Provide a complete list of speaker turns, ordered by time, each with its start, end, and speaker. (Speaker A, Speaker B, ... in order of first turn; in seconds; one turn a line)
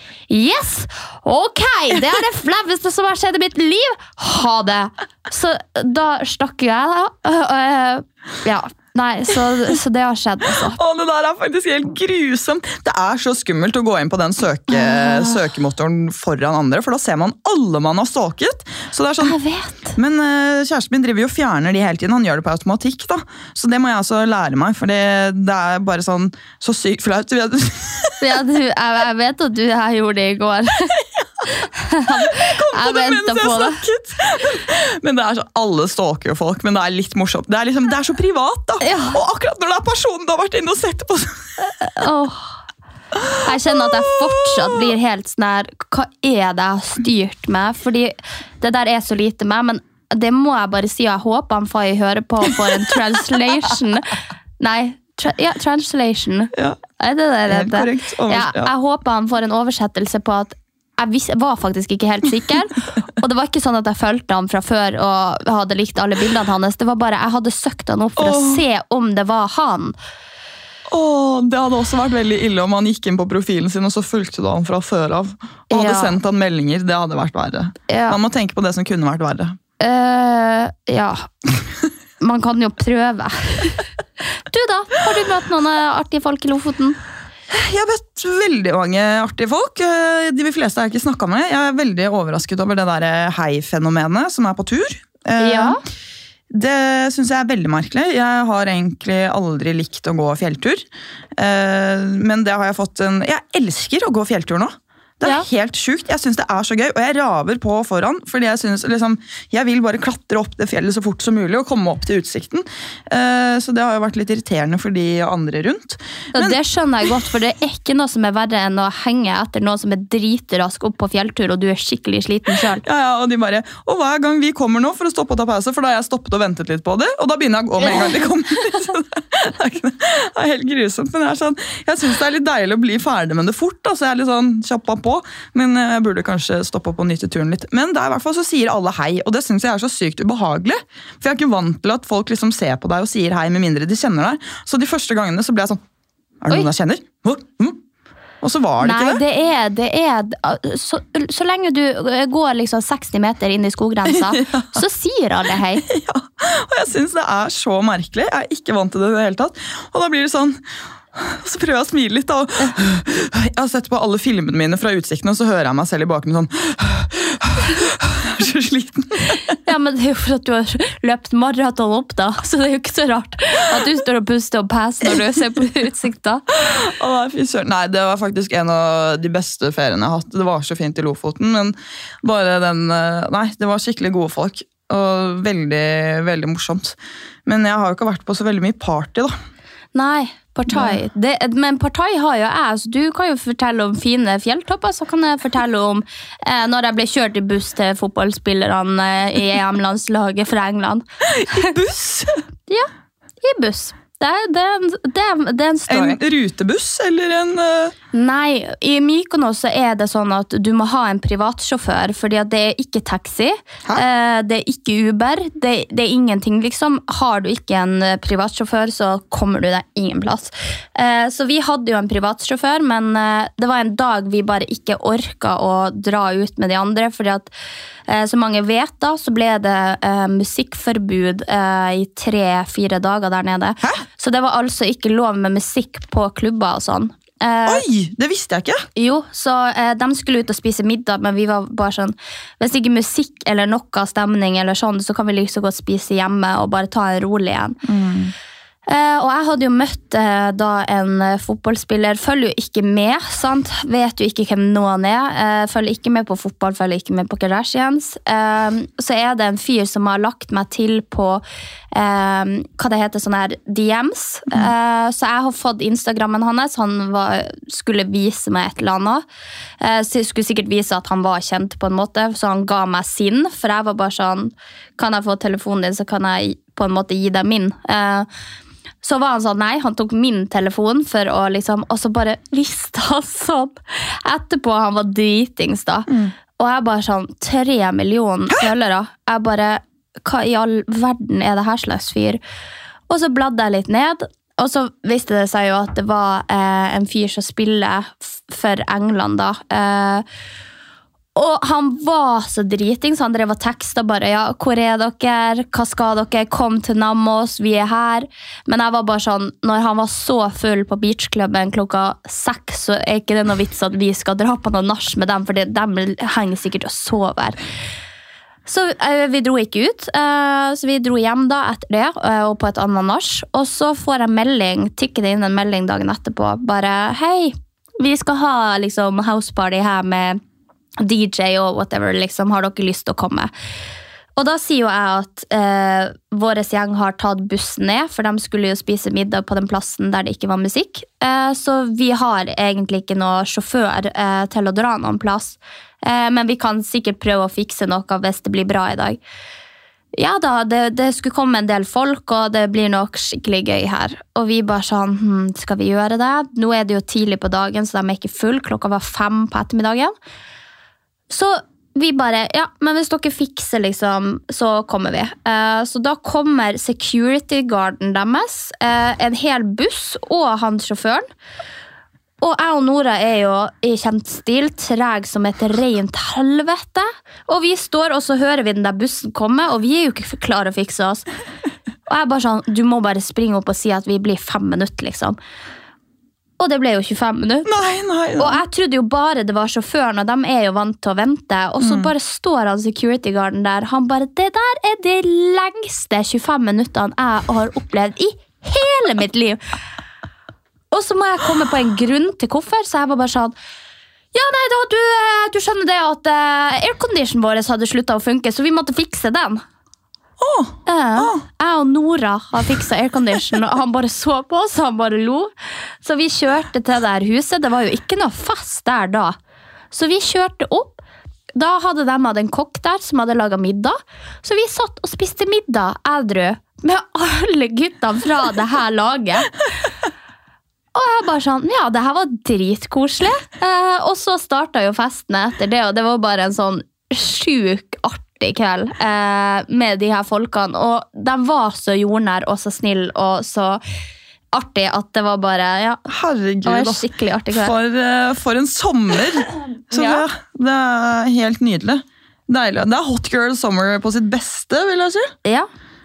Speaker A: 0.3-10.8
Speaker B: 10.7-19.4
Speaker A: 14.7-15.4
Speaker A: 19.2-19.9
Speaker B: 19.9-28.4
Speaker A: 28.2-30.9
Speaker A: 31.5-33.8
Speaker B: 32.1-41.4
Speaker A: 38.8-39.2
Speaker A: 41.7-42.5
Speaker B: 43.1-44.9
Speaker A: 43.4-70.0
Speaker B: 56.5-56.8
Speaker B: 57.5-58.7
Speaker B: 68.2-68.6
Speaker B: 70.9-79.6
Speaker A: 75.7-76.2
Speaker A: 77.9-78.2
Speaker A: 79.8-81.3
Speaker A: 82.2-87.0
Speaker B: 87.5-95.8
Speaker A: 95.4-95.8
Speaker B: 96.5-100.8
Speaker B: 101.3-116.5
Speaker A: 116.3-122.8
Speaker B: 122.8-145.8
Speaker B: 146.4-147.8
Speaker B: 148.4-149.2
Speaker A: 148.8-155.8
Speaker B: 154.1-154.8
Speaker B: 155.8-160.6
Speaker B: 161.1-169.5
Speaker A: 169.6-176.4
Speaker B: 176.5-189.3
Speaker A: 189.9-201.7
Speaker B: 190.7-191.0
Speaker B: 201.3-202.4
Speaker A: 203.4-206.2
Speaker B: 205.9-207.9
Speaker A: 208.1-227.5
Speaker A: 228.1-237.8
Speaker B: 237.7-238.8
Speaker A: 238.9-247.8
Speaker B: 247.8-248.3
Speaker A: 248.9-269.2
Speaker A: 269.8-278.3
Speaker A: 279.0-292.4
Speaker A: 293.1-300.2
Speaker A: 301.3-317.6
Speaker A: 318.6-330.4
Speaker A: 331.0-333.5
Speaker A: 334.4-349.2
Speaker A: 350.1-360.1
Speaker A: 361.3-371.2
Speaker A: 372.4-381.2
Speaker A: 382.1-385.4
Speaker A: 386.6-387.7
Speaker B: 387.6-388.6
Speaker A: 388.4-399.6
Speaker B: 391.8-392.1
Speaker A: 400.9-403.5
Speaker A: 404.3-409.6
Speaker B: 410.4-411.4
Speaker A: 410.9-419.4
Speaker A: 419.9-421.0
Speaker A: 421.6-429.5
Speaker A: 430.9-443.8
Speaker A: 444.5-446.0
Speaker B: 446.1-455.3
Speaker A: 446.6-447.7
Speaker A: 449.9-450.2